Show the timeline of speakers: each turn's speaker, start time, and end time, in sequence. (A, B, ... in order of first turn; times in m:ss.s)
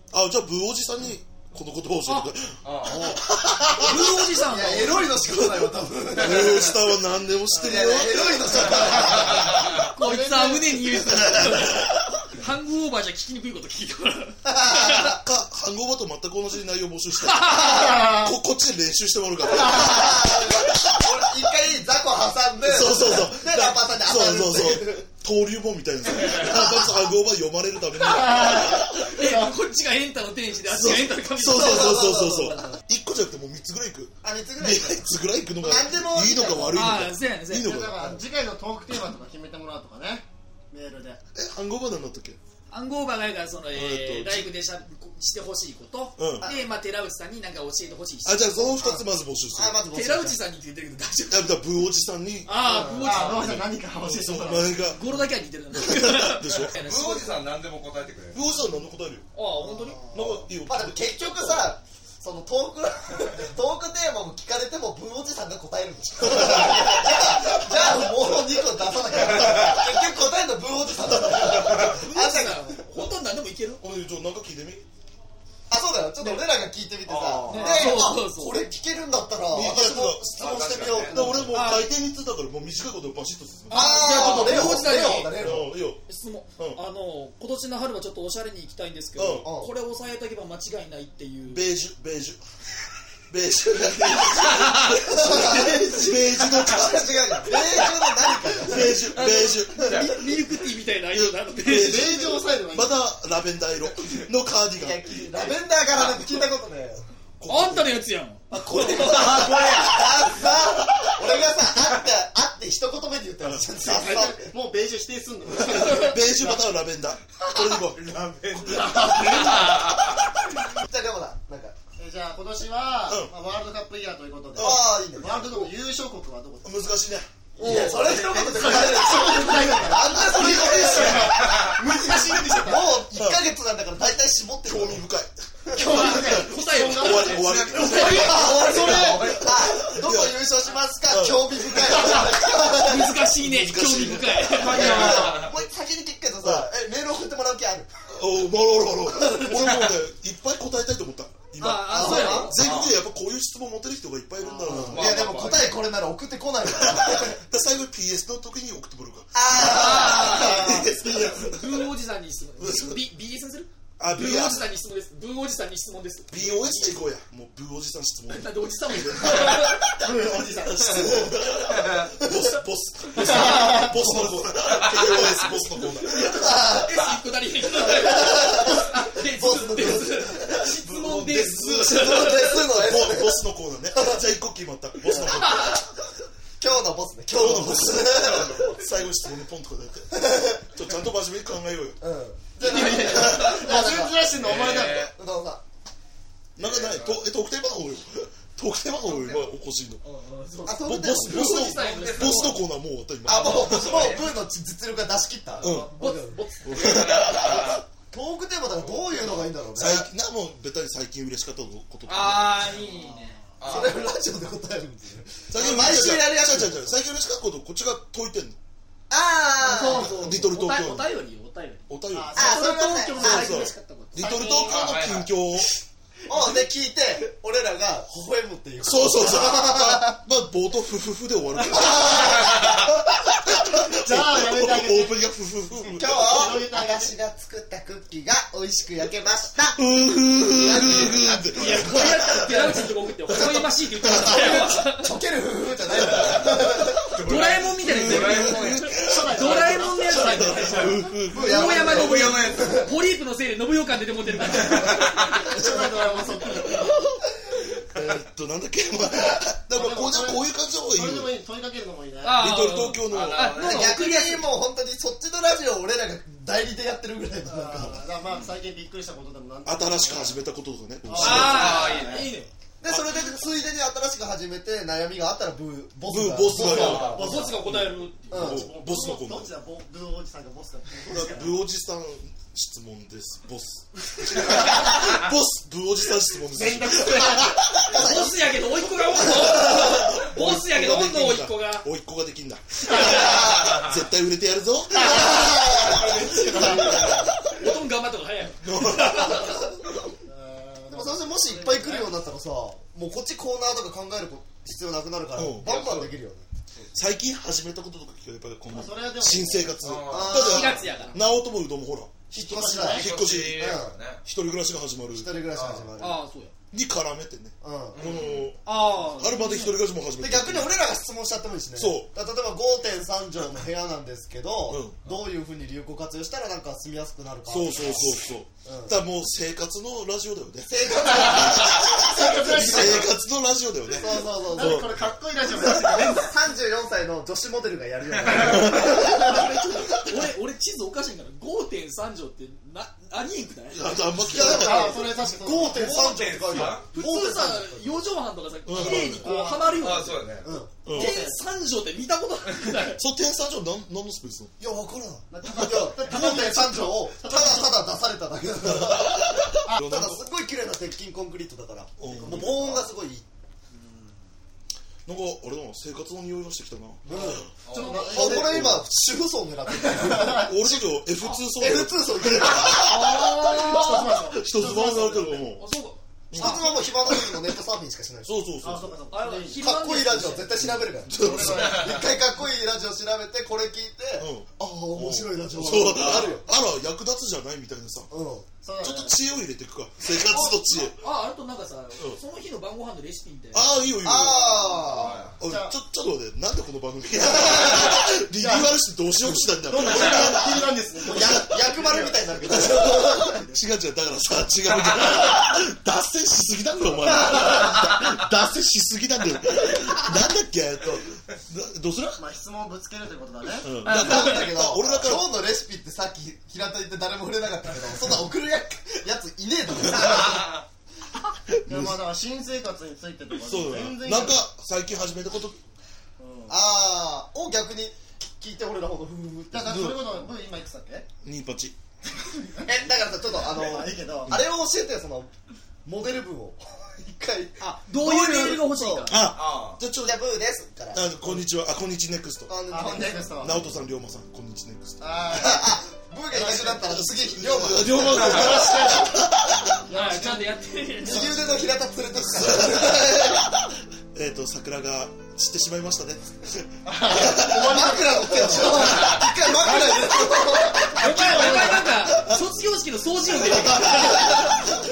0:00.1-0:04.0 A
0:02.0-0:02.3 B
0:02.6-0:03.2 C
0:02.8-0:03.2 D
0:03.8-0:05.2 B
0:03.8-0:06.8 D
0:06.2-0:09.3 A
0:07.5-0:09.8 D
0:09.9-0:15.1 B
0:10.0-0:10.8 E
0:11.0-0:11.9 A
0:14.4-0:15.2 D
0:15.1-0:20.7 A
0:17.2-0:18.0 B
0:17.8-0:18.3 E
0:19.6-0:25.0 D
0:22.6-0:29.2 A
0:28.1-0:29.5 E
0:28.5-0:32.1 B
0:30.7-0:38.0 A
0:31.5-0:32.8 D
0:34.2-0:35.0 D
0:35.6-0:36.9 D
0:36.7-0:37.8 B
0:37.6-0:41.2 E
0:41.3-0:42.4 A
0:42.7-0:48.6 B
0:43.7-0:44.5 A
0:46.2-0:46.5 A
0:46.4-0:46.6 D
0:48.2-0:49.8 A
0:48.8-0:50.4 D
0:49.9-0:51.6 B
0:51.3-0:52.6 A
0:52.4-0:53.6 B
0:52.6-0:53.3 D
0:52.8-0:54.9 E
0:53.1-0:55.1 A
0:54.8-0:57.3 B
0:55.7-0:56.7 A
0:56.8-0:58.4 C
0:58.3-0:59.3 A
0:59.3-1:00.0 B
0:59.8-1:00.2 E
1:00.1-1:01.6 A
1:00.2-1:12.8 D
1:06.4-1:06.7 A
1:09.3-1:09.9 C
1:11.8-1:13.8 B
1:13.8-1:14.8 A
1:15.7-1:21.5 D
1:17.0-1:18.0 C
1:17.5-1:18.7 B
1:19.5-1:26.0 A
1:20.3-1:21.3 C
1:21.5-1:21.9 B
1:23.7-1:25.4 B
1:23.7-1:25.7 D
1:26.1-1:31.6 B
1:29.2-1:29.5 A
1:29.4-1:29.7 D
1:31.5-1:32.4 A
1:33.3-1:37.5 A
1:35.1-1:39.1 D
1:38.6-1:40.2 A
1:39.1-1:42.2 B
1:41.1-1:45.3 A
1:41.7-1:43.0 E
1:44.8-1:47.0 D
1:47.4-1:48.0 A
1:47.5-1:49.8 B
1:48.5-1:54.5 D
1:49.0-1:50.0 C
1:53.4-1:53.7 A
1:53.8-1:56.6 E
1:55.6-1:58.0 A
1:57.6-2:00.2 C
1:58.6-1:59.7 E
1:58.7-1:58.9 A
2:00.8-2:01.8 D
2:02.0-2:06.8 E
2:04.6-2:04.9 A
2:04.6-2:05.7 D
2:06.6-2:07.3 A
2:07.6-2:11.4 D
2:07.6-2:13.0 E
2:10.9-2:11.8 C
2:12.6-2:15.0 D
2:13.1-2:13.5 A
2:14.6-2:20.4 A
2:15.7-2:19.2 E
2:15.8-2:18.5 B
2:17.3-2:19.5 C
2:18.1-2:23.2 D
2:21.1-2:22.3 A
2:22.8-2:25.4 B
2:23.4-2:25.2 A
2:24.5-2:25.5 C
2:24.6-2:27.9 D
2:26.4-2:26.7 A
2:28.1-2:35.3 A
2:31.6-2:32.6 B
2:31.9-2:32.6 D
2:32.5-2:33.0 C
2:34.4-2:35.0 E
2:34.7-2:35.8 C
2:34.7-2:37.4 D
2:36.7-2:41.9 A
2:39.3-2:41.0 D
2:39.5-2:40.8 B
2:40.7-2:41.2 E
2:41.4-2:47.0 B
2:42.6-2:43.0 A
2:44.0-2:44.7 A
2:46.3-2:49.7 A
2:48.3-2:49.8 B
2:49.9-2:51.3 E
2:50.6-2:56.5 A
2:53.2-2:53.9 E
2:53.3-2:53.8 B
2:56.2-2:57.1 D
2:56.5-3:02.6 B
2:57.8-3:00.6 D
3:00.5-3:05.9 A
3:01.8-3:03.4 D
3:05.1-3:05.4 D
3:06.6-3:08.8 D
3:07.3-3:12.0 A
3:08.2-3:08.6 C
3:10.1-3:10.6 D
3:12.0-3:15.6 D
3:12.6-3:13.6 B
3:12.7-3:15.1 E
3:12.9-3:13.6 A
3:14.4-3:15.1 C
3:16.6-3:20.0 A
3:16.6-3:17.2 C
3:19.1-3:19.4 C
3:20.0-3:22.6 B
3:20.6-3:21.8 D
3:20.8-3:24.1 A
3:21.8-3:22.5 C
3:23.2-3:26.5 D
3:23.2-3:24.3 C
3:25.6-3:25.9 A
3:25.6-3:26.8 B
3:26.6-3:27.8 A
3:26.7-3:27.8 C
3:27.6-3:30.1 D
3:28.7-3:29.5 C
3:29.7-3:32.7 A
3:32.1-3:33.4 B
3:32.8-3:33.4 E
3:33.6-3:34.1 C
3:33.6-3:37.0 D
3:35.5-3:38.6 A
3:39.1-3:40.4 D
3:39.6-3:44.9 B
3:39.9-3:41.1 A
3:41.9-3:45.7 A
3:42.1-3:43.6 E
3:42.3-3:43.7 D
3:44.2-3:44.7 E
3:44.6-3:45.3 C
3:46.3-3:50.2 D
3:48.8-3:52.8 A
3:51.7-3:52.9 D
3:53.4-3:56.5 A
3:53.9-3:55.2 E
3:55.9-4:02.6 D
3:56.2-3:57.1 E
3:59.8-4:04.7 A
4:01.6-4:05.1 B
4:04.2-4:07.0 D
4:06.1-4:06.4 A
4:07.0-4:09.0 C
4:07.2-4:15.2 B
4:07.8-4:12.3 A
4:09.0-4:11.0 E
4:11.3-4:12.9 D
4:11.7-4:12.9 C
4:14.6-4:15.3 C
4:15.4-4:16.8 E
4:15.6-4:16.0 D
4:17.8-4:21.3 A
4:19.7-4:22.4 E
4:22.2-4:24.5 B
4:22.3-4:23.5 A
4:23.1-4:24.0 C
4:23.6-4:28.0 D
4:27.4-4:30.4 E
4:29.6-4:31.9 A
4:31.0-4:32.2 E
4:31.2-4:32.3 C
4:31.2-4:32.5 B
4:32.8-4:37.4 D
4:32.9-4:33.3 A
4:36.0-4:39.5 A
4:36.5-4:37.3 C
4:37.0-4:38.4 B
4:37.0-4:37.6 E
4:38.3-4:38.7 D
4:38.4-4:41.6 E
4:41.1-4:48.0 A
4:46.5-4:47.6 E
4:47.8-4:48.6 D
4:47.9-4:51.8 B
4:49.4-4:55.8 A
4:53.0-4:53.8 D
4:55.0-4:57.2 E
4:55.0-4:57.3 D
4:56.5-4:57.3 A
4:57.5-4:59.7 B
4:58.6-4:59.6 A
5:00.3-5:02.1 E
5:00.9-5:06.4 D
5:05.3-5:06.1 A
5:06.9-5:12.2 A
5:08.7-5:09.9 E
5:09.8-5:10.6 C
5:10.1-5:11.1 D
5:10.3-5:11.2 B
5:12.3-5:14.0 D
5:12.4-5:13.0 E
5:12.8-5:15.3 A
5:12.9-5:14.2 C
5:15.1-5:16.2 D
5:15.5-5:15.9 C
5:16.0-5:16.5 B
5:16.7-5:20.7 A
5:17.6-5:18.2 D
5:17.9-5:18.5 C
5:18.6-5:19.8 B
5:20.2-5:29.0 D
5:21.7-5:22.1 A
5:24.7-5:25.0 A
5:27.4-5:34.9 A
5:30.6-5:33.0 D
5:31.9-5:33.1 E
5:33.9-5:34.9 D
5:34.4-5:36.3 E
5:35.7-5:39.4 D
5:38.3-5:39.0 A
5:38.7-5:43.9 B
5:43.7-5:45.0 A
5:44.3-5:47.9 D
5:44.3-5:45.9 E
5:45.6-5:46.9 C
5:46.5-5:46.8 A
5:46.9-5:50.4 B
5:48.6-5:49.3 A
5:48.8-5:49.8 E
5:49.8-5:50.5 C
5:50.4-5:50.8 D
5:50.8-5:51.1 A
5:50.9-5:51.4 E
5:50.9-5:53.0 B
5:52.9-5:54.5 A
5:54.6-6:03.2 D
5:55.6-5:57.8 E
5:58.6-6:00.2 A
6:02.0-6:02.8 A
6:02.0-6:02.9 E
6:03.7-6:04.2 E
6:05.0-6:07.5 A
6:07.0-6:07.5 D
6:07.1-6:08.8 E
6:07.6-6:08.2 C
6:08.0-6:10.5 D
6:08.1-6:08.8 A
6:09.8-6:10.5 E
6:10.3-6:15.6 A
6:11.6-6:13.1 D
6:12.8-6:14.1 B
6:13.5-6:15.6 E
6:15.6-6:16.8 B
6:16.3-6:17.2 A
6:16.3-6:18.5 D
6:18.2-6:18.9 A
6:18.6-6:19.6 E
6:19.1-6:20.5 B
6:19.6-6:26.4 D
6:20.6-6:21.9 A
6:21.1-6:22.0 E
6:24.2-6:28.1 A
6:28.1-6:28.5 D
6:28.6-6:29.1 E
6:28.8-6:31.0 A
6:30.3-6:33.7 B
6:33.5-6:34.7 A
6:34.0-6:35.3 D
6:34.6-6:35.7 E
6:34.9-6:35.4 C
6:35.4-6:41.6 A
6:38.4-6:38.8 E
6:39.4-6:42.2 E
6:41.0-6:43.4 D
6:42.5-6:52.2 A
6:43.2-6:43.6 E
6:52.2-6:53.8 E
6:53.6-6:55.3 A
6:53.8-6:54.4 B
6:53.8-7:00.6 D
7:01.6-7:02.0 A
7:01.7-7:04.4 E
7:03.4-7:05.6 A
7:06.2-7:06.6 E
7:06.5-7:09.7 D
7:09.5-7:11.1 E
7:09.6-7:10.0 A
7:11.2-7:11.8 A
7:12.2-7:12.7 E
7:12.6-7:15.3 D
7:13.4-7:14.4 E
7:15.8-7:19.2 D
7:17.6-7:19.2 B
7:19.1-7:20.2 A
7:19.3-7:19.8 C
7:20.0-7:21.1 D
7:20.9-7:22.5 A
7:22.5-7:23.3 D
7:22.7-7:23.6 E
7:23.4-7:25.0 A
7:25.0-7:25.6 E
7:25.3-7:28.8 D
7:26.3-7:27.0 E
7:27.2-7:29.7 A
7:28.1-7:29.2 E
7:29.9-7:30.6 E
7:29.9-7:31.3 B
7:31.0-7:33.4 D
7:32.4-7:33.0 A
7:34.1-7:37.9 A
7:36.8-7:42.0 E
7:37.3-7:41.7 D
7:41.0-7:44.4 B
7:42.1-7:42.4 A
7:43.4-7:44.6 A